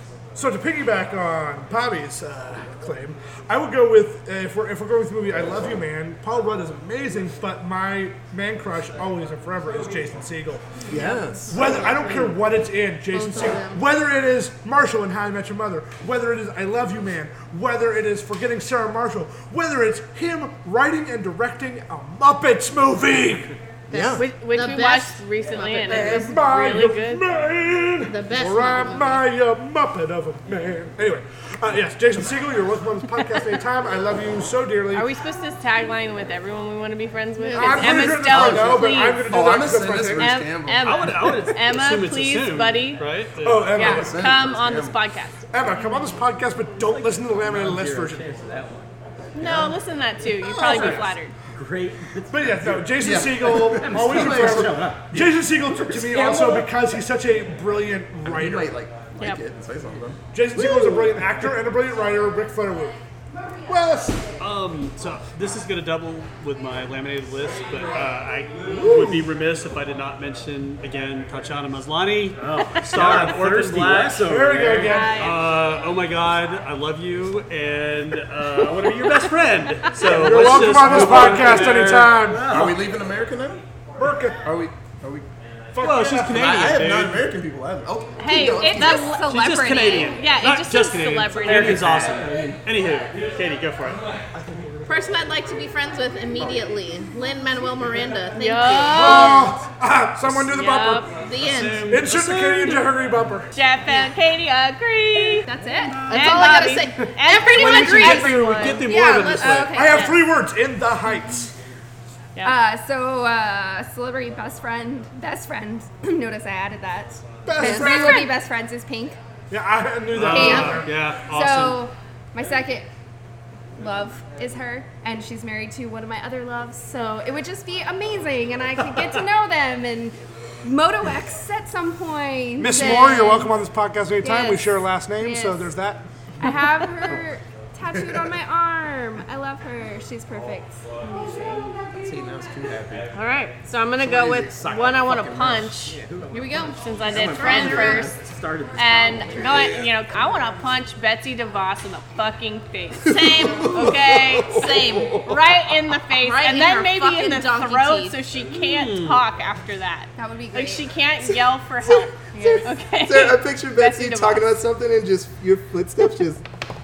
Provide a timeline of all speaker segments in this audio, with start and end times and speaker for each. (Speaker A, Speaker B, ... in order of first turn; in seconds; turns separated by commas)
Speaker A: 0.3-10.7, Speaker B: 10.9-11.6, Speaker C: 10.9-11.6, Speaker A: 11.5-23.6, Speaker C: 13.1-13.8, Speaker B: 23.9-24.2, Speaker C: 23.9-26.4, Speaker D: 24.2-27.2, Speaker A: 25.9-35.1, Speaker C: 28.1-29.2, Speaker D: 34.9-39.4, Speaker C: 37.4-38.0, Speaker A: 37.5-40.2, Speaker B: 37.8-41.0, Speaker D: 40.2-43.1, Speaker E: 40.8-44.0, Speaker A: 43.4-44.1, Speaker D: 43.7-45.5, Speaker B: 43.8-45.0, Speaker A: 45.5-48.2, Speaker F: 46.8-48.9, Speaker B: 49.4-49.8, Speaker D: 49.4-51.3, Speaker B: 50.4-51.0, Speaker F: 50.6-56.7, Speaker A: 52.3-58.7, Speaker B: 53.0-54.9, Speaker B: 58.2-61.5, Speaker A: 60.3-63.0, Speaker B: 63.7-64.1, Speaker E: 64.4-74.2, Speaker B: 68.6-69.2, Speaker A: 68.8-69.1, Speaker F: 72.4-75.0, Speaker A: 74.2-75.2, Speaker D: 74.8-75.5, Speaker E: 75.0-82.2, Speaker A: 80.0-82.5, Speaker B: 80.6-81.6, Speaker F: 80.8-82.8, Speaker B: 82.5-83.6, Speaker A: 84.0-84.4, Speaker B: 84.4-85.2, Speaker A: 85.7-86.9, Speaker E: 85.8-87.3, Speaker B: 86.3-89.0, Speaker D: 88.2-89.4, Speaker G: 88.3-90.2, Speaker E: 89.2-94.0, Speaker D: 90.0-91.9, Speaker F: 91.4-92.5, Speaker B: 92.2-92.6, Speaker C: 94.8-99.5, Speaker D: 98.3-99.6, Speaker A: 98.9-101.1, Speaker D: 100.4-101.1, Speaker C: 101.1-101.9, Speaker E: 101.4-102.9, Speaker A: 101.9-103.5, Speaker D: 103.5-105.5, Speaker G: 105.5-106.0, Speaker E: 105.9-106.3, Speaker C: 105.9-110.1, Speaker D: 106.1-108.9, Speaker E: 107.5-109.8, Speaker G: 109.2-110.2, Speaker A: 109.7-111.5, Speaker G: 112.4-119.2, Speaker A: 117.5-118.3, Speaker B: 117.5-117.8, Speaker C: 117.5-118.2, Speaker A: 119.5-120.9, Speaker E: 120.1-121.8, Speaker G: 120.3-122.9, Speaker C: 120.4-120.8, Speaker G: 123.8-133.6, Speaker A: 132.6-136.1, Speaker G: 134.2-135.7, Speaker G: 136.4-141.7, Speaker B: 137.9-138.3, Speaker B: 141.9-143.1, Speaker D: 143.1-146.0, Speaker B: 144.0-146.5, Speaker C: 146.3-148.1, Speaker D: 146.8-148.1, Speaker F: 147.1-149.8, Speaker D: 148.7-154.7, Speaker C: 153.0-155.3, Speaker B: 153.1-155.3, Speaker D: 155.2-164.4, Speaker C: 156.2-158.2, Speaker E: 158.5-159.2, Speaker G: 160.2-160.9, Speaker B: 161.2-166.4